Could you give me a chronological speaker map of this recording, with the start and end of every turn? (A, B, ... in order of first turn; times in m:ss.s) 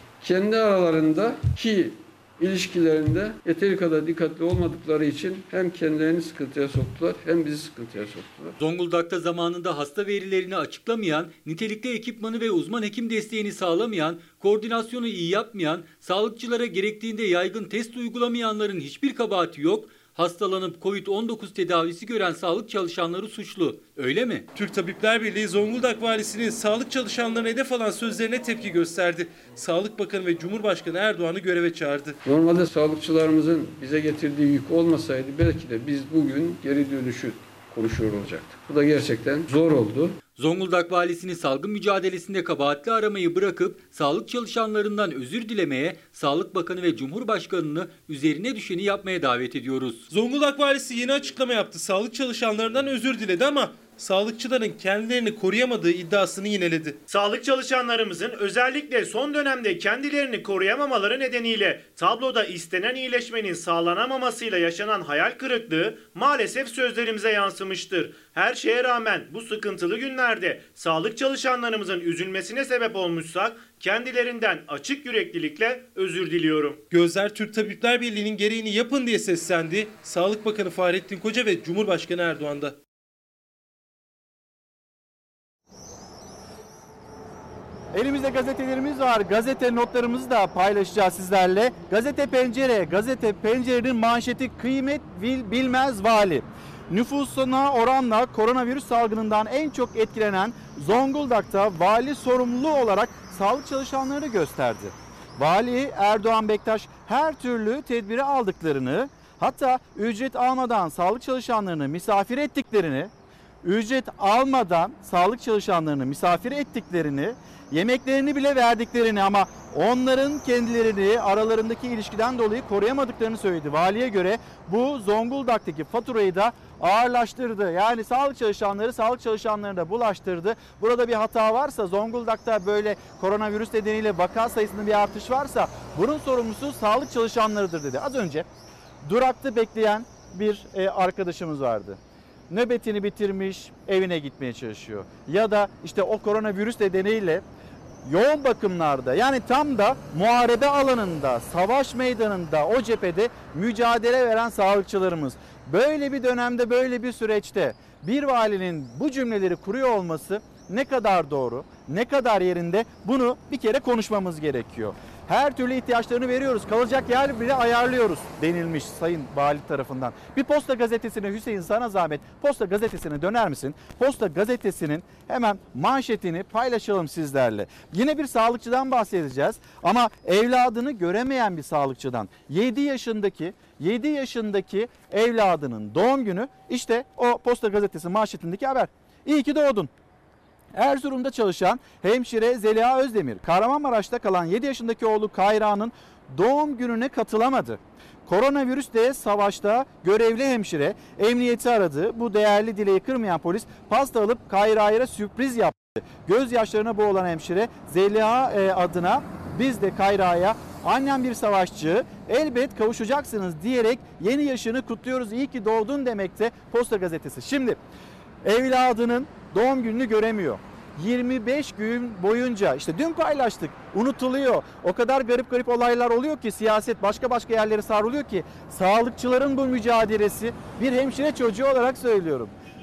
0:00.2-0:08.6 A
0:08.6-0:24.5 B
0:24.5-0:32.2 C
0:32.2-0:40.2 A
0:40.4-0:50.1 B
0:50.1-0:57.0 C
0:57.1-1:16.8 D
1:16.9-1:22.8 C
1:27.9-1:53.1 E
1:53.6-2:18.5 E
2:19.0-2:27.4 E
2:28.0-3:09.9 E
3:10.7-3:37.8 E
3:38.4-3:52.5 E